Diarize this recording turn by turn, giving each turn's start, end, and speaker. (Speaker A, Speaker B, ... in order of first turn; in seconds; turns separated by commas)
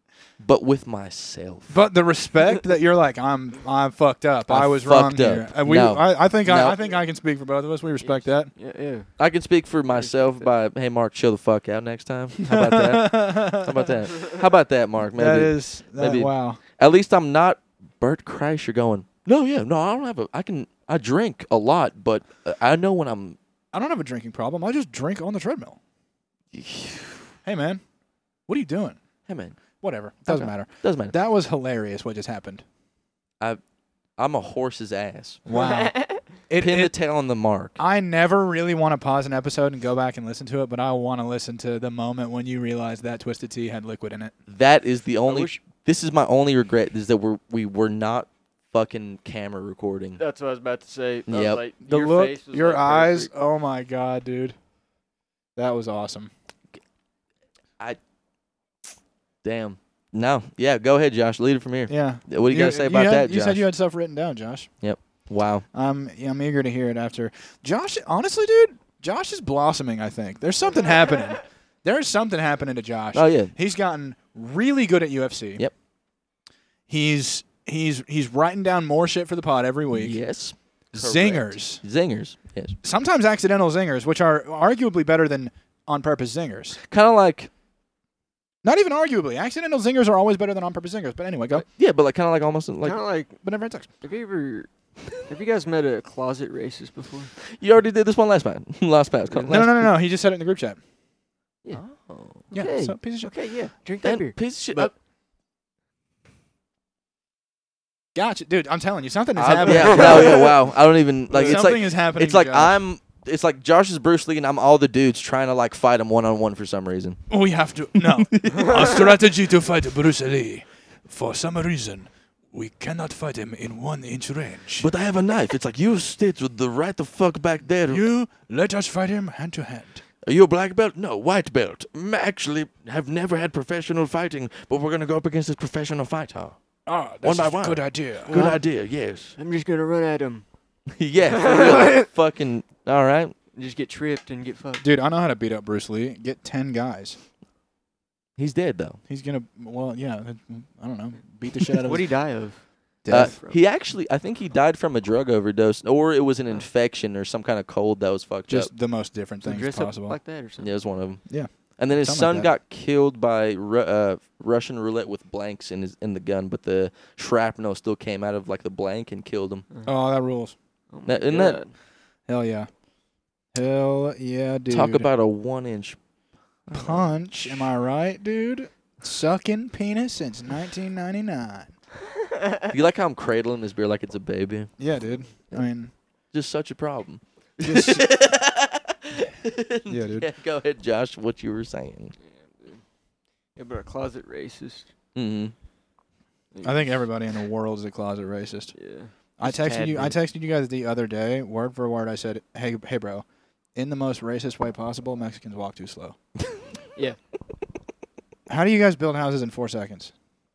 Speaker A: 0.4-1.8, Speaker B: 1.7-8.5, Speaker A: 4.5-6.8, Speaker C: 8.0-9.1, Speaker A: 9.2-23.4, Speaker C: 9.9-10.5, Speaker B: 12.5-13.7, Speaker B: 15.1-16.6, Speaker B: 23.7-25.8, Speaker A: 26.5-27.3, Speaker B: 27.4-27.8, Speaker B: 28.5-29.0, Speaker A: 29.3-29.6, Speaker B: 29.8-32.6, Speaker A: 30.3-31.2, Speaker A: 34.2-35.4, Speaker B: 35.5-37.0, Speaker C: 35.5-36.2, Speaker A: 36.6-37.8, Speaker B: 37.8-44.4, Speaker A: 44.5-50.2, Speaker C: 45.3-45.6, Speaker C: 50.2-53.3, Speaker A: 51.3-51.6, Speaker B: 51.8-54.6, Speaker B: 55.6-56.3, Speaker A: 59.4-63.7, Speaker B: 61.9-64.7, Speaker A: 64.8-65.7, Speaker B: 65.7-75.6, Speaker A: 73.1-73.5, Speaker B: 76.9-80.2, Speaker A: 79.9-82.8, Speaker B: 80.9-81.8, Speaker B: 82.8-86.8, Speaker A: 86.9-87.5, Speaker B: 88.6-91.7, Speaker A: 91.7-93.0, Speaker C: 92.8-93.4, Speaker B: 93.4-93.9, Speaker C: 94.0-97.3, Speaker A: 97.5-99.9, Speaker C: 99.3-99.6, Speaker B: 99.5-100.8, Speaker A: 101.7-102.5, Speaker C: 102.5-104.9, Speaker B: 102.5-103.3, Speaker A: 104.0-104.9, Speaker B: 108.2-110.5, Speaker A: 109.4-117.2, Speaker C: 110.0-110.3, Speaker B: 111.3-112.8, Speaker B: 117.3-124.9, Speaker A: 118.3-119.0, Speaker A: 124.8-128.1, Speaker B: 127.9-130.0, Speaker A: 130.2-136.6, Speaker B: 136.9-138.5, Speaker A: 137.2-139.3, Speaker C: 138.3-140.5, Speaker A: 140.9-143.3, Speaker C: 141.3-142.1, Speaker C: 143.5-144.8, Speaker B: 144.8-147.2, Speaker A: 148.4-149.0, Speaker B: 149.1-152.2, Speaker C: 151.8-153.6, Speaker B: 153.0-153.4, Speaker A: 153.1-158.7, Speaker B: 158.5-160.2, Speaker C: 159.4-160.8, Speaker A: 160.6-169.7, Speaker B: 161.3-162.5, Speaker B: 169.9-170.6, Speaker C: 170.9-171.8, Speaker A: 171.1-171.6, Speaker B: 172.3-172.7, Speaker B: 173.5-175.1, Speaker A: 174.7-176.0, Speaker A: 176.7-177.7, Speaker B: 176.7-181.7, Speaker A: 182.7-184.8, Speaker B: 184.8-185.9, Speaker A: 186.3-192.1, Speaker B: 187.6-188.1, Speaker B: 189.9-190.3, Speaker C: 192.2-192.8, Speaker C: 193.6-194.9, Speaker A: 195.2-195.6, Speaker C: 196.5-196.9, Speaker B: 196.6-198.8, Speaker C: 198.8-200.2, Speaker B: 199.4-206.2, Speaker B: 208.5-210.1